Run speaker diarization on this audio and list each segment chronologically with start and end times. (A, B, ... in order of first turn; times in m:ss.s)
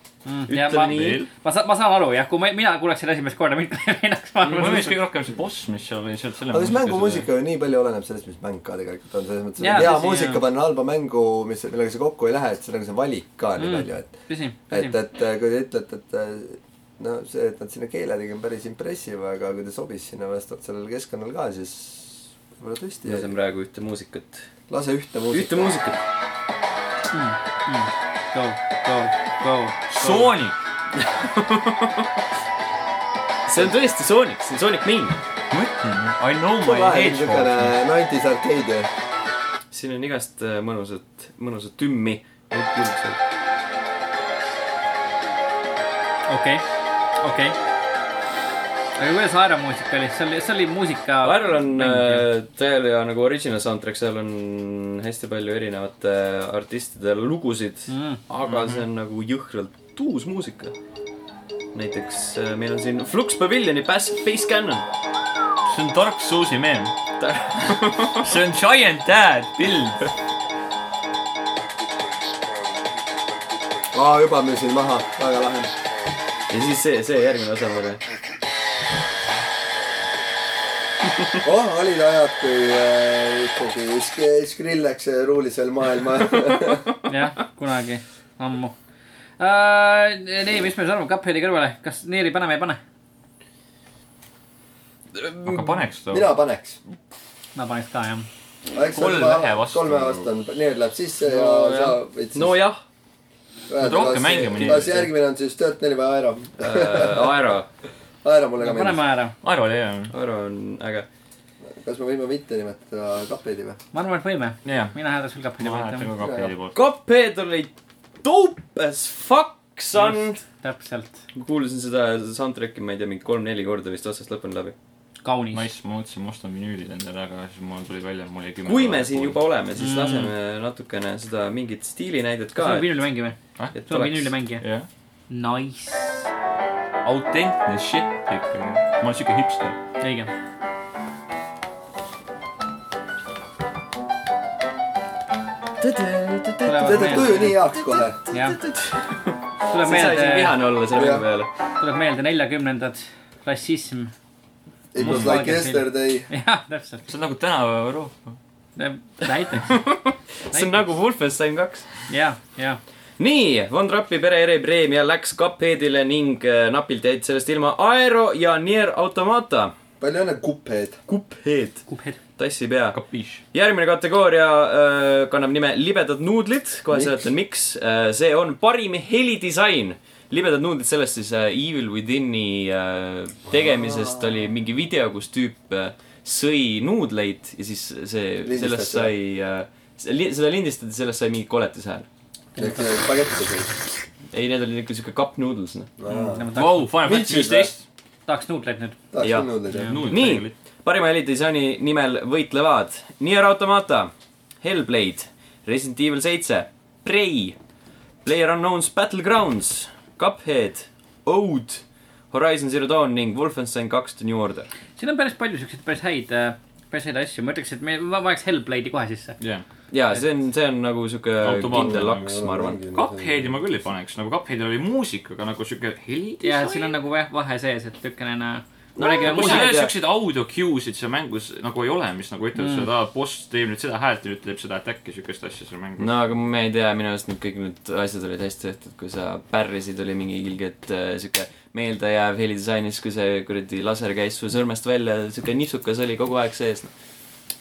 0:00.2-0:05.0 A
0:00.5-0:01.2 B
0:00.9-0:01.3 C
0:04.4-0:07.3 C
0:06.5-0:14.1 D
0:09.6-0:10.4 A
0:13.6-0:14.9 A
0:14.7-0:23.3 D
0:23.0-0:24.4 B
0:24.7-0:25.8 D
0:25.3-0:26.0 B
0:27.1-0:30.3 A
0:29.9-0:30.5 C
0:31.0-0:32.0 B
0:33.5-0:35.2 B
0:35.5-0:37.7 C
0:36.6-0:38.9 D
0:39.7-0:43.2 B
0:46.3-0:46.6 A
0:47.2-0:47.6 A
0:49.0-0:52.2 A
0:51.2-1:00.7 B
0:57.9-0:58.2 A
0:58.4-0:58.8 C
1:01.7-1:04.8 B
1:05.6-1:06.9 C
1:07.2-1:08.2 B
1:07.6-1:10.0 C
1:13.9-1:15.7 D
1:16.5-1:18.0 B
1:21.4-1:26.8 D
1:27.1-1:28.7 A
1:29.4-1:32.8 A
1:35.1-1:35.8 B
1:35.4-1:36.2 C
1:36.1-1:36.8 D
1:37.5-1:38.3 A
1:38.7-1:42.5 D
1:38.9-1:40.2 C
1:41.3-1:42.8 B
1:43.7-1:47.3 D
1:43.8-1:45.1 C
1:44.0-1:44.9 B
1:46.6-1:47.7 B
1:48.2-1:49.0 D
1:48.6-1:49.3 A
1:49.4-1:50.1 C
1:50.1-1:51.0 B
1:51.6-1:53.8 D
1:53.9-1:56.1 A
1:54.6-1:54.9 C
1:55.6-1:56.7 C
1:56.2-1:56.5 D
1:56.7-1:57.7 B
1:58.2-2:00.4 B
2:00.6-2:01.2 A
2:01.3-2:04.7 B
2:05.2-2:05.6 A
2:05.5-2:09.4 C
2:08.6-2:12.9 B
2:09.8-2:10.3 A
2:12.6-2:14.6 A
2:13.7-2:14.3 B
2:14.6-2:14.9 C
2:15.3-2:16.3 A
2:17.0-2:19.8 C
2:20.0-2:20.3 A
2:25.8-2:31.5 B
2:26.6-2:27.6 A
2:26.8-2:28.2 D
2:28.3-2:28.6 A
2:29.7-2:30.6 A
2:30.9-2:31.2 D
2:31.8-2:34.1 A
2:34.9-2:36.3 D
2:35.0-2:37.0 A
2:35.0-2:35.4 C
2:37.1-2:38.4 C
2:38.8-2:39.8 A
2:39.5-2:41.8 B
2:40.5-2:40.8 A
2:42.1-2:42.8 A
2:43.2-2:49.7 B
2:50.0-2:51.0 D
2:51.1-2:51.8 B
2:51.9-2:52.2 A
2:52.4-2:53.0 B
2:52.9-2:53.4 C
2:53.5-3:12.1 B
2:56.9-2:57.2 D
3:03.6-3:04.1 D
3:08.4-3:09.1 D
3:12.6-3:13.7 D
3:14.3-3:15.9 B
3:16.0-3:17.7 D
3:16.1-3:16.9 A
3:16.5-3:17.8 C
3:18.3-3:19.0 A
3:19.1-3:20.0 D
3:19.2-3:19.5 B
3:19.7-3:20.5 C
3:20.1-3:24.1 B
3:24.6-3:27.6 B
3:28.2-3:34.7 B
3:35.0-3:39.4 A
3:39.4-3:39.6 C
3:39.9-3:42.8 B
3:41.4-3:42.3 C
3:41.7-3:43.5 D
3:42.9-3:47.0 C
3:46.4-3:49.7 A
3:49.0-3:49.9 B
3:49.2-3:56.1 C
3:52.6-3:52.9 A
3:56.0-4:06.9 B